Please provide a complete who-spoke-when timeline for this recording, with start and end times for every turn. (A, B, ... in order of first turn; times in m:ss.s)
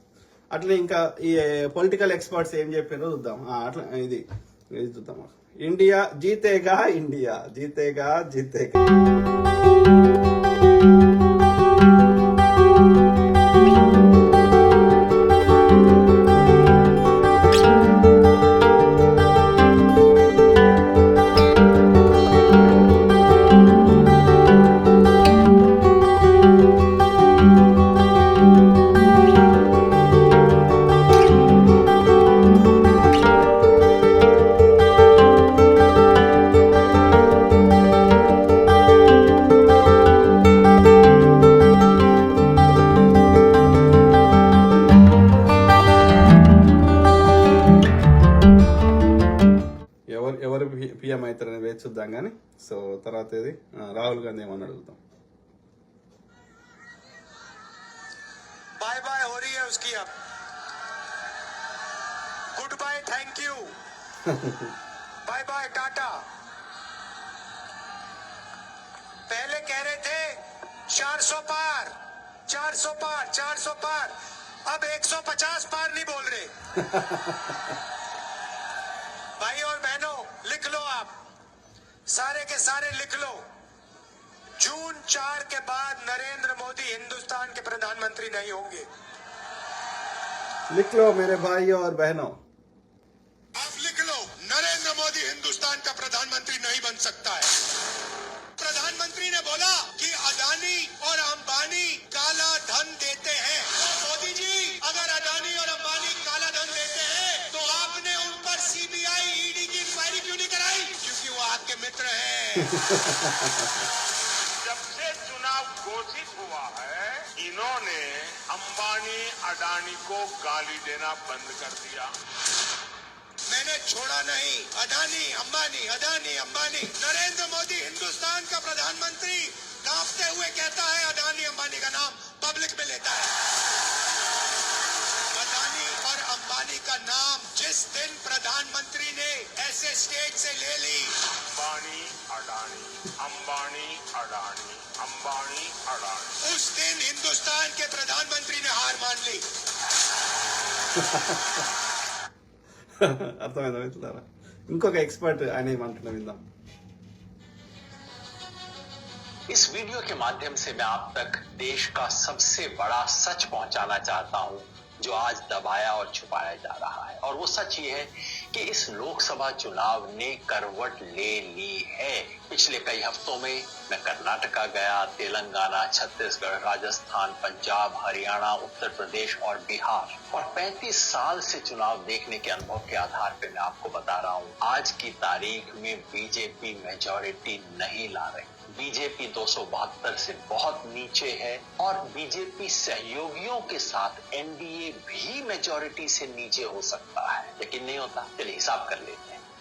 0:00.5-0:08.8 A
0:50.1-0:55.0 A
0:58.8-1:00.1 B
1:02.6-1:03.7 B
1:04.3-1:04.7 A
1:05.2-1:06.2 B
1:09.3-1:11.9 B
1:12.5-1:14.2 B
1:14.7-1:16.5 B
1:16.9-1:17.2 A
1:19.4-1:21.1 B
1:22.1-1:23.4 B
1:24.6-1:28.8 B
1:30.7-1:32.4 A
1:33.6-1:37.4 C
1:38.6-1:52.8 C
1:52.7-1:53.7 A
1:54.6-2:02.1 D
2:03.5-2:13.3 C
2:10.6-2:11.6 B
2:12.4-2:12.8 B
2:15.3-2:21.1 C
2:17.8-2:19.0 B
2:21.5-2:26.4 D
2:26.4-2:29.4 C
2:31.0-2:31.4 A
2:33.0-2:36.4 A
2:39.5-3:19.4 E